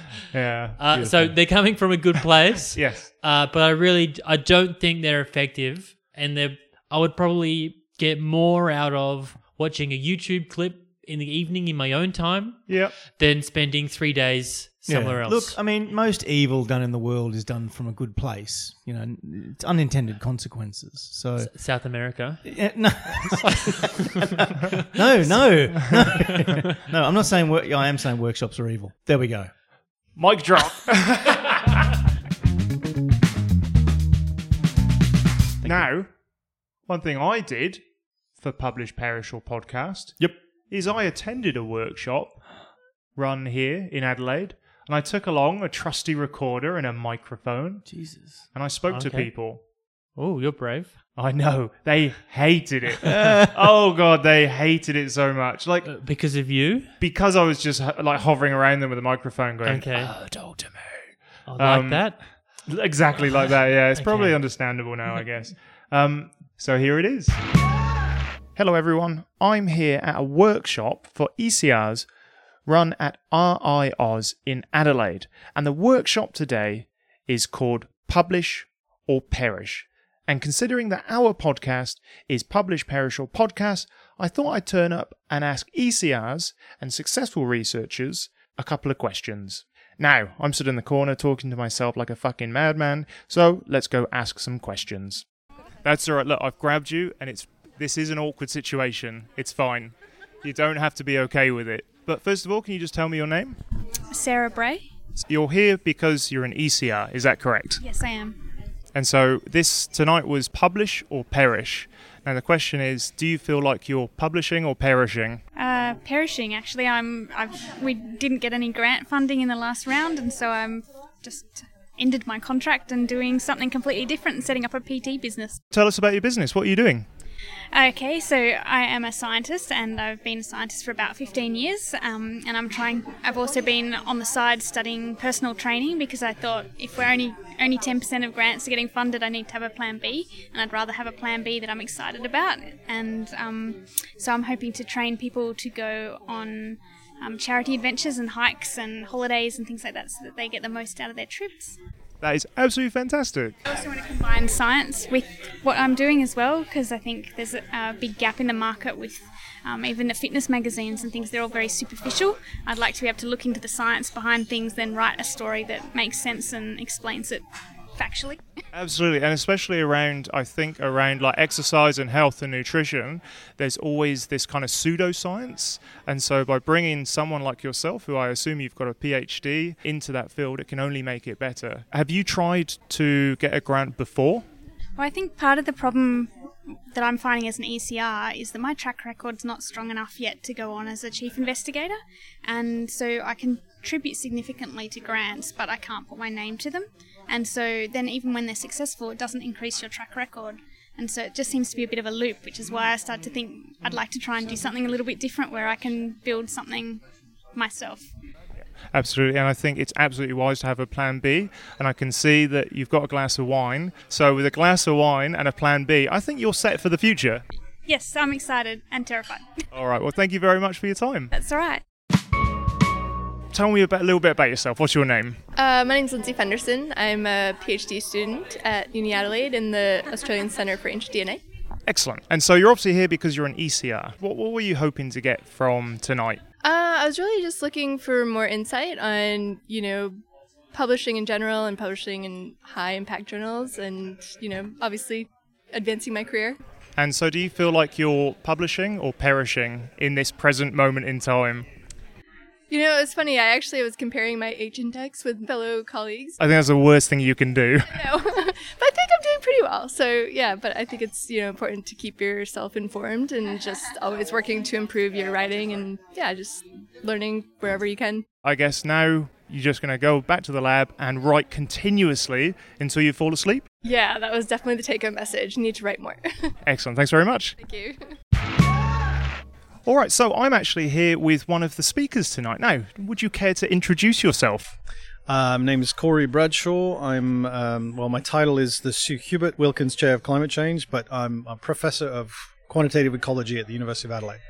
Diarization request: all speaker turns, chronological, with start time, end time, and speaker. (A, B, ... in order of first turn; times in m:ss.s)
0:00.3-0:00.8 A
0:00.8-0:15.6 B
0:00.9-0:01.3 C
0:02.7-0:03.1 A
0:12.7-0:13.0 A
0:14.9-0:21.5 C
0:21.4-0:22.9 B
0:22.4-0:29.5 C
0:25.2-0:26.3 B
0:30.2-0:31.8 A
0:35.6-0:35.9 C
0:35.6-0:36.1 A
0:36.8-0:37.8 A
0:38.3-0:49.6 A
0:47.9-0:48.4 C
0:48.9-0:51.0 B
0:51.2-0:55.9 A
0:53.1-0:53.5 C
0:55.8-0:56.9 B
0:57.0-1:07.4 A
0:59.6-1:00.1 B
1:01.5-1:02.3 B
1:04.0-1:04.4 B
1:08.5-1:12.1 A
1:12.6-1:35.2 A
1:35.8-1:43.6 A
1:44.1-1:44.9 D
1:45.2-1:47.8 A
1:47.8-1:48.4 D
1:48.9-1:55.4 A
1:55.6-2:05.6 D
2:05.7-2:07.1 A
2:07.7-2:31.8 D
2:32.2-2:33.6 A
2:33.7-2:47.4 D
2:48.0-2:48.4 D
2:48.7-3:04.4 A
3:05.0-3:06.3 D
3:06.9-3:27.0 D
3:27.5-3:28.1 D
3:28.9-3:37.4 A
3:37.8-3:39.5 D
3:39.7-3:41.3 A
3:41.3-3:41.8 D
3:43.5-3:45.4 A
3:45.6-3:51.4 E
3:51.9-3:56.4 A
3:56.6-4:00.2 E
4:00.7-4:06.6 E
4:07.0-4:11.6 A
4:12.7-4:16.4 E
4:16.4-4:18.0 A
4:17.9-4:28.2 E
4:28.4-4:33.7 A
4:33.8-4:36.5 E
4:36.6-4:37.5 A
4:37.6-4:38.1 E
4:39.8-4:44.8 A
4:45.3-4:54.4 F